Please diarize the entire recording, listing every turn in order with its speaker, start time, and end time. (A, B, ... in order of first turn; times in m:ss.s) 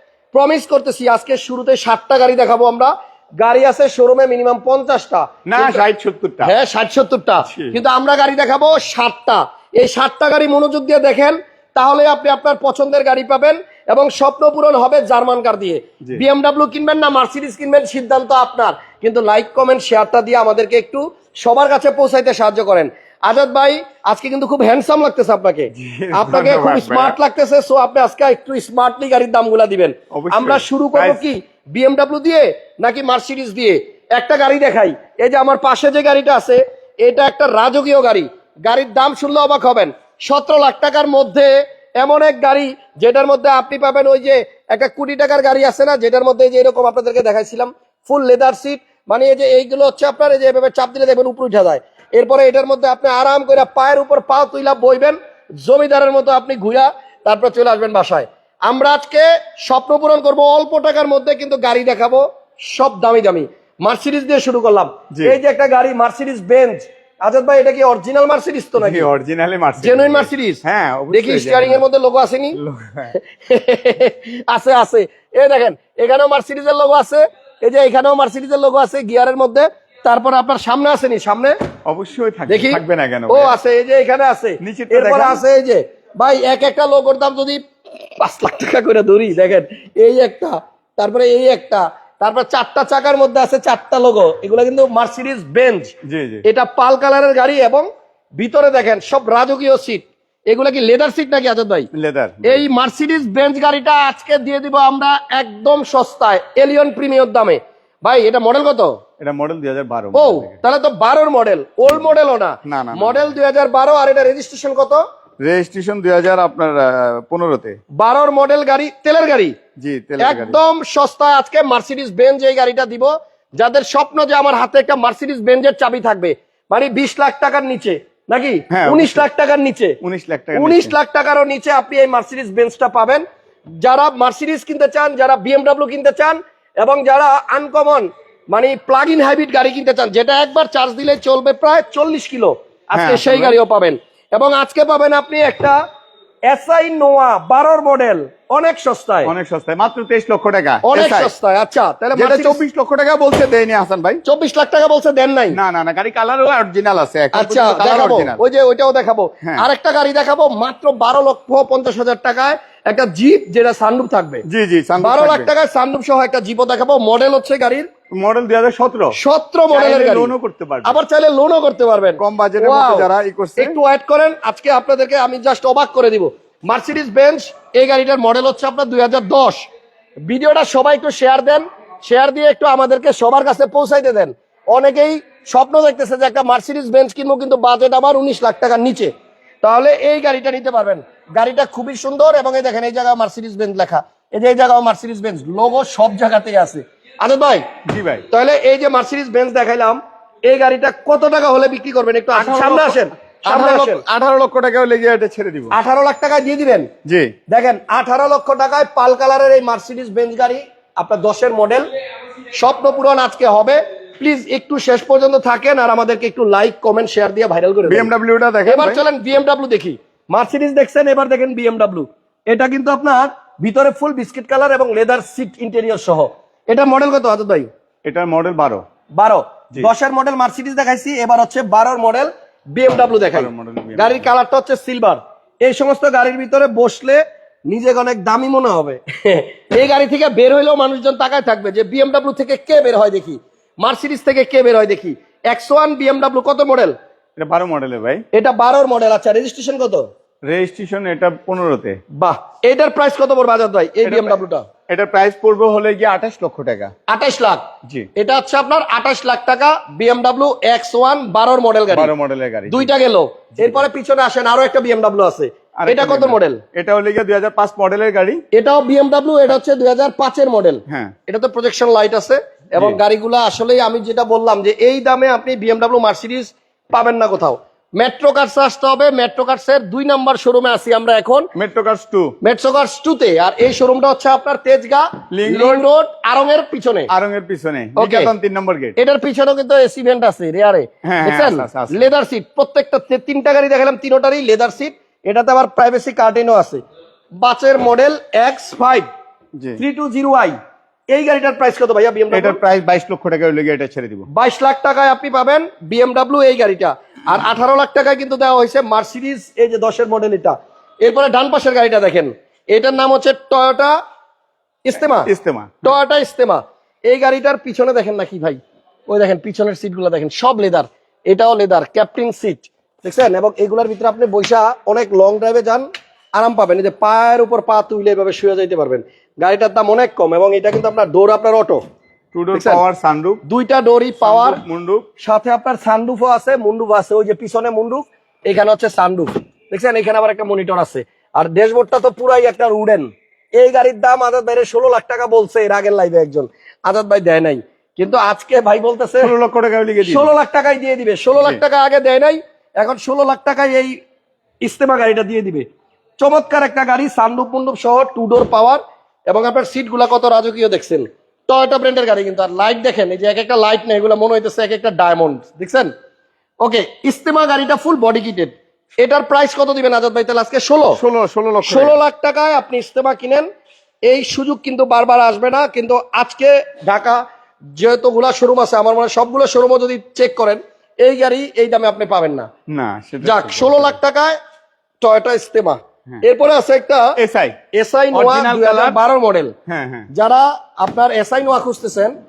0:00.3-0:05.8 A
0:05.5-0:06.5 B
0:06.4-1:09.1 A
0:07.5-0:07.8 B
0:25.7-0:27.2 B
0:30.1-0:31.2 B
1:05.1-1:05.4 B
1:08.8-1:11.8 B
1:09.8-1:12.6 A
1:12.6-1:13.1 B
1:13.1-1:21.5 A
1:21.8-1:23.6 B
1:22.5-1:41.9 A
1:24.6-1:25.4 B
1:36.0-1:36.4 B
1:41.9-1:42.6 B
1:42.4-1:48.9 A
1:49.2-1:50.5 B
1:50.1-1:55.0 A
1:52.6-1:53.3 B
1:55.4-1:57.8 B
1:58.0-1:59.5 A
1:59.8-2:00.6 B
2:00.2-2:10.0 A
2:08.7-2:09.2 B
2:10.0-2:10.9 B
2:10.5-2:13.2 A
2:13.8-2:25.8 A
2:22.9-2:23.6 B
2:26.5-2:29.3 A
2:29.2-2:31.3 B
2:30.8-2:32.6 A
2:32.2-2:34.2 B
2:34.2-2:35.6 A
2:35.5-2:38.4 B
2:37.3-2:44.4 A
2:44.4-2:45.5 B
2:45.0-2:47.9 A
2:48.1-2:49.2 B
2:49.1-2:50.3 A
2:49.7-2:51.0 B
2:50.8-2:59.7 A
2:52.2-2:53.8 B
3:00.2-3:09.1 A
3:09.6-3:17.6 A
3:17.9-3:18.2 B
3:18.3-3:24.0 A
3:22.3-3:25.7 B
3:25.7-3:26.9 A
3:27.0-3:27.3 B
3:27.5-3:31.9 A
3:32.5-3:38.1 A
3:37.9-3:39.0 B
3:38.6-3:47.7 A
3:48.0-3:48.8 B
3:49.2-4:06.9 A
3:53.2-3:54.2 B
4:07.4-4:08.2 B
4:08.3-4:10.0 A
4:10.4-4:12.0 B
4:12.2-4:14.6 A
4:14.0-4:14.4 B
4:14.9-4:16.9 B
4:17.1-4:17.6 A
4:18.2-4:22.1 A
4:21.9-4:22.9 B
4:22.7-4:26.6 A
4:23.6-4:23.8 B
4:25.8-4:28.4 B
4:28.5-4:41.5 A
4:30.9-4:31.1 B
4:41.5-4:42.4 B
4:42.4-4:47.1 A
4:45.3-4:45.8 B
4:47.1-4:48.9 B
4:48.0-4:48.3 A
4:49.0-4:56.8 A
4:51.0-4:52.1 B
4:57.4-4:59.1 A
4:59.8-5:00.6 A
5:01.1-5:02.6 A
5:02.3-5:04.3 B
5:04.3-5:14.0 A
5:14.8-5:15.3 A
5:15.0-5:15.9 B
5:15.8-5:31.8 A
5:32.3-5:33.4 B
5:32.5-5:32.8 A
5:33.4-5:34.6 A
5:34.2-5:35.0 B
5:35.2-5:49.3 A
5:49.2-5:50.3 B
5:50.0-5:54.0 A
5:54.6-5:55.6 A
5:56.2-6:05.9 A
6:06.6-6:11.0 A
6:11.0-6:12.0 B
6:11.6-6:13.5 A
6:14.0-6:17.2 A
6:17.7-6:22.5 A
6:22.7-6:24.0 B
6:23.2-6:24.4 A
6:25.0-6:27.2 A
6:27.2-6:27.6 B
6:27.7-6:29.5 A
6:28.1-6:29.0 B
6:29.7-6:30.1 B
6:30.1-6:32.1 A